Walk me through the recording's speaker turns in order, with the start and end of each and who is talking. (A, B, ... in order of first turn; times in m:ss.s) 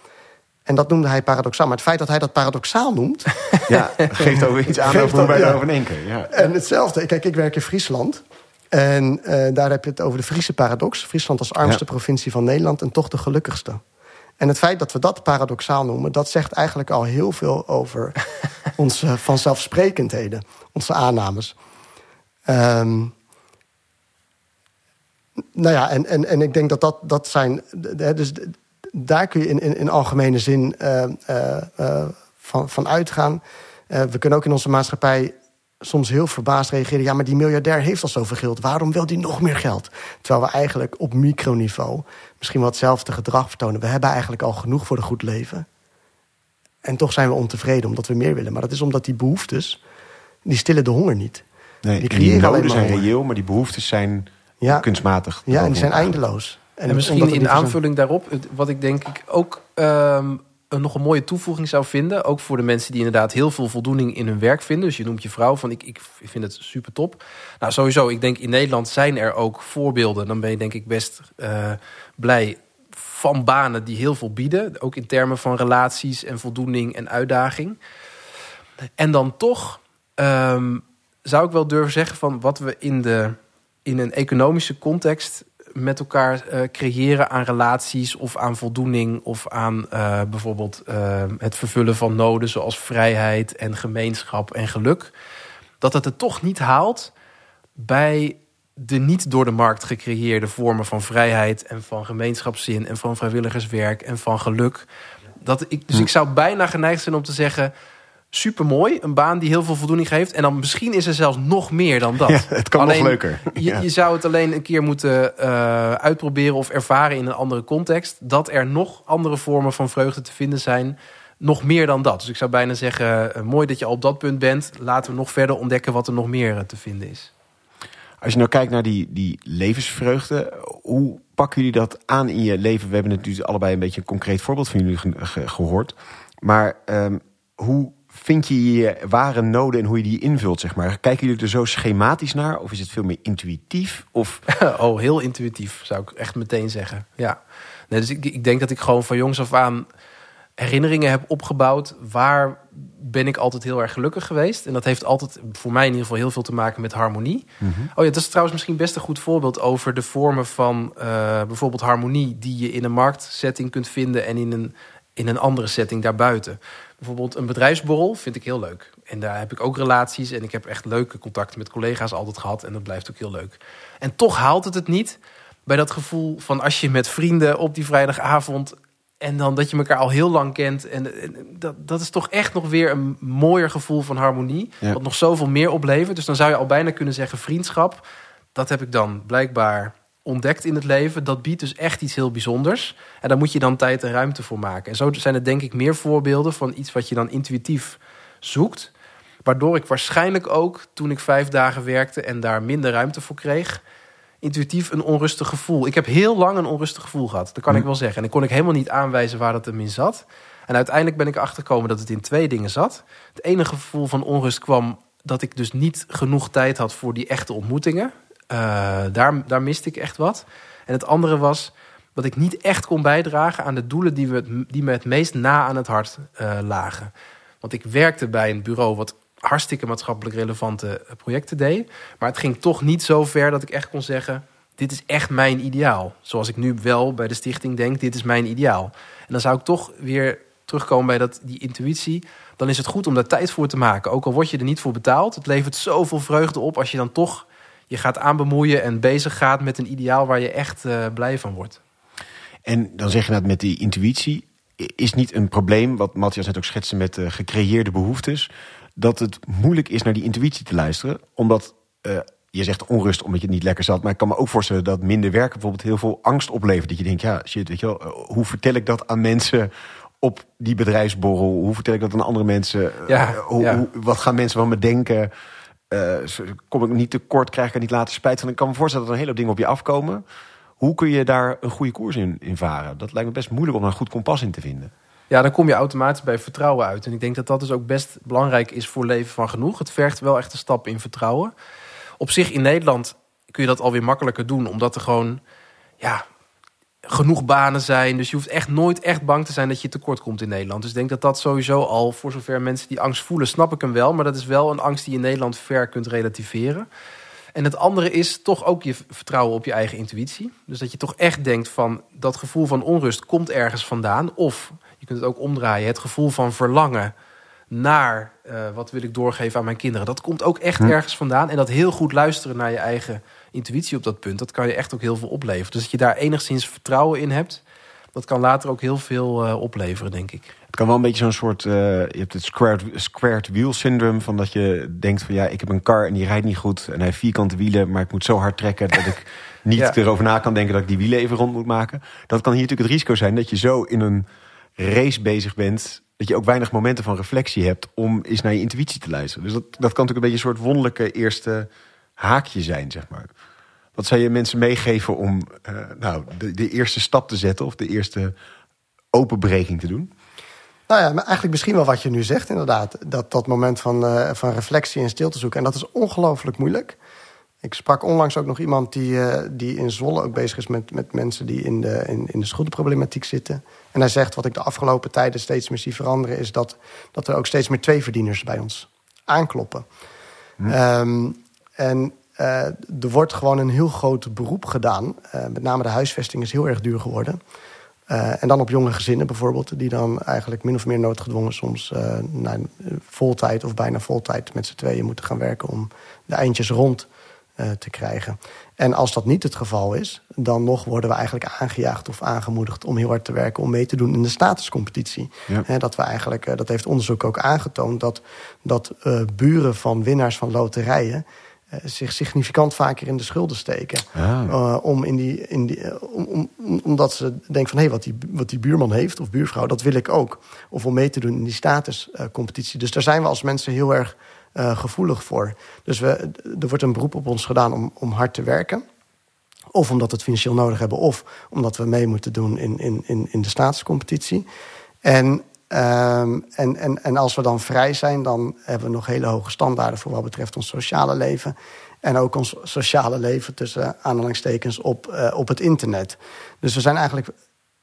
0:00.7-0:03.5 A
0:03.7-0:06.4 B
0:04.3-0:05.6 A
0:06.3-0:13.8 A
0:14.4-0:21.6 A
0:22.5-0:23.1 A
0:25.6-0:45.7 A
0:46.8-0:49.8 A
0:50.4-0:51.4 A
0:51.8-0:56.2 B
0:52.0-0:53.1 A
0:54.6-0:54.9 A
0:55.5-0:57.8 A
0:56.9-1:17.8 C
1:19.0-1:35.1 C
1:35.8-1:37.1 C
1:37.8-1:44.9 C
1:45.4-1:47.7 C
1:48.3-2:07.3 C
1:52.3-1:53.8 B
2:08.2-2:24.4 B
2:24.5-2:27.4 C
2:27.9-2:29.9 C
2:30.6-3:08.0 C
2:37.6-2:37.9 B
3:08.6-3:18.9 C
3:19.4-3:23.8 C
3:24.4-4:11.8 C
4:12.7-4:29.7 B
4:30.2-4:35.3 B
4:33.1-4:33.8 C
4:35.9-4:40.2 B
4:40.8-4:44.9 B
4:45.3-4:51.5 C
4:52.2-4:55.4 C
4:56.0-4:56.3 C
4:57.0-5:06.9 C
5:07.6-5:17.1 C
5:17.7-5:27.6 C
5:28.1-5:30.5 C
5:30.7-5:44.3 B
5:44.8-5:53.3 B
5:54.0-5:58.4 B
5:59.1-6:00.1 B
6:00.9-6:07.0 A
6:07.6-6:19.9 A
6:20.7-6:27.4 A
6:28.1-6:37.1 A
6:37.6-7:08.8 A
6:54.2-6:54.5 B
7:09.7-7:14.5 A
7:15.0-7:27.3 A